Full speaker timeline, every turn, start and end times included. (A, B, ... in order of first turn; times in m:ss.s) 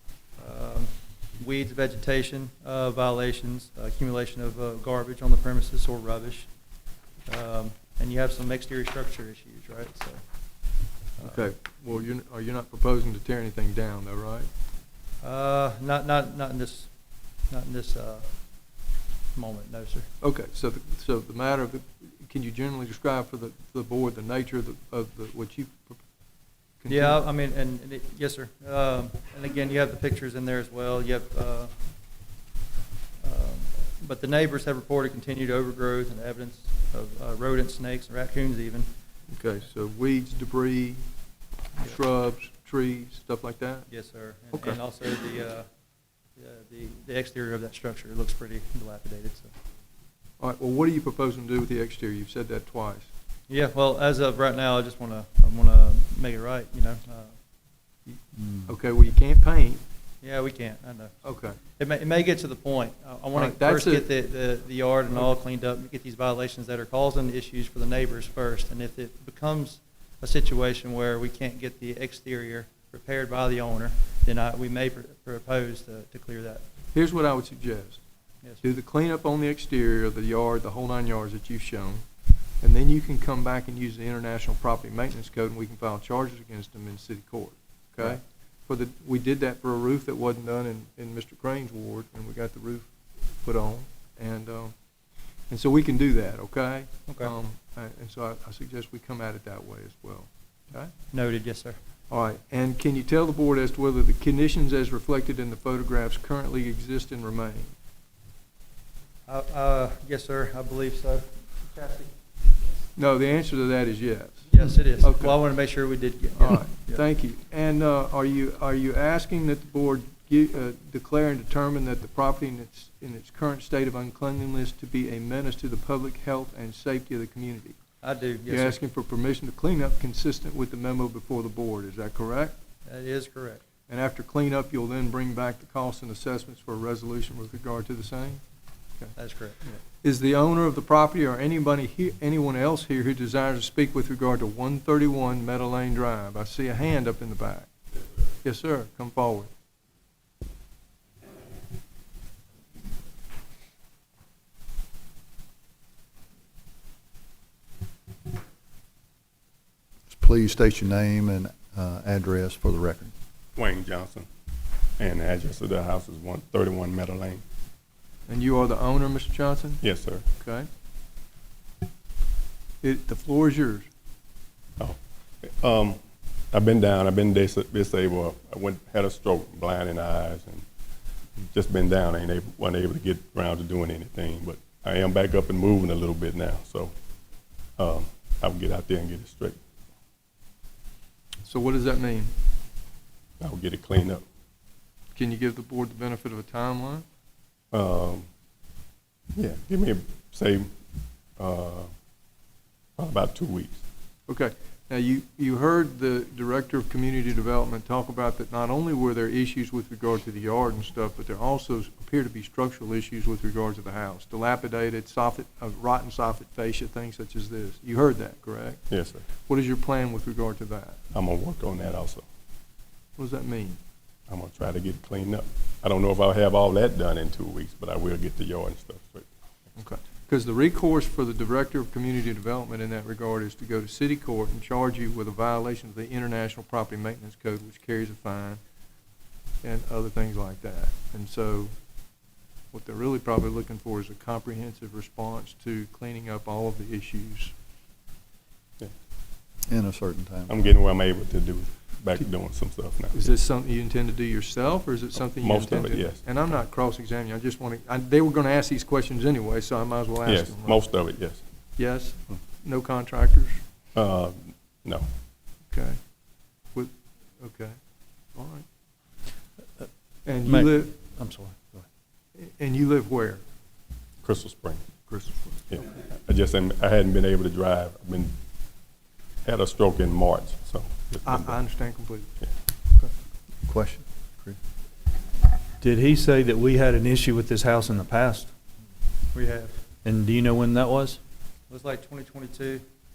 0:00.4-0:06.7 A
0:07.2-0:11.4 A
0:11.2-0:14.5 B
0:15.2-0:20.1 A
0:20.2-0:26.0 B
0:26.8-0:27.2 B
0:26.9-0:31.7 A
0:33.2-0:38.9 A
0:39.3-0:41.0 B
0:41.8-0:43.9 B
0:43.9-0:45.7 A
0:44.5-0:44.8 B
0:46.3-0:49.5 A
0:50.4-0:53.1 B
0:53.5-0:57.4 A
0:58.1-0:59.8 B
0:58.3-0:58.7 C
1:00.2-1:16.6 A
1:01.2-1:01.6 B
1:03.3-1:04.1 B
1:16.9-1:18.0 B
1:18.6-1:22.0 B
1:22.6-1:32.9 B
1:33.4-1:40.9 B
1:37.1-1:37.3 A
1:41.1-1:41.8 A
1:42.1-1:47.7 B
1:49.2-1:52.1 A
1:53.0-1:55.5 B
1:54.5-1:57.0 A
1:56.4-2:07.8 B
2:08.0-2:08.8 A
2:08.5-2:12.5 B
2:12.8-2:13.6 A
2:13.9-2:18.4 B
2:19.1-2:19.8 A
2:20.0-2:27.9 B
2:28.4-2:29.5 B
2:40.1-2:43.1 C
2:43.6-2:44.3 D
2:45.0-2:47.4 D
2:48.3-2:50.7 B
2:49.8-2:50.3 D
2:52.8-2:53.9 B
2:54.8-2:56.0 D
2:56.5-3:00.6 D
3:01.4-3:06.9 D
3:07.8-3:09.6 D
3:11.4-3:12.3 B
3:13.4-3:14.2 D
3:15.1-3:17.0 B
3:17.7-3:18.3 D
3:19.3-3:20.7 D
3:21.4-3:21.9 D
3:23.0-3:23.8 D
3:24.3-3:41.0 B
3:38.9-3:39.2 D
3:41.1-3:42.2 D
3:43.2-3:43.8 B
3:44.3-3:49.3 D
3:49.8-3:58.6 B
3:59.6-4:01.7 B
4:02.7-4:07.5 B
4:09.7-4:10.7 C
4:10.5-4:13.2 D
4:13.1-4:21.1 B
4:15.4-4:16.2 D
4:20.2-4:21.4 D
4:21.8-4:23.6 B
4:23.9-4:25.1 D
4:25.7-4:26.0 B
4:26.7-4:27.8 B
4:28.3-4:28.6 B
4:30.2-4:31.0 B
4:30.4-4:31.8 A
4:32.3-4:33.4 B
4:34.2-4:34.8 D
4:35.7-4:38.3 D
4:39.4-4:41.6 D
4:41.2-4:42.3 B
4:43.6-4:44.6 C
4:45.8-4:48.5 E
4:49.3-4:49.8 A
4:50.0-4:51.2 E
4:51.7-4:52.8 A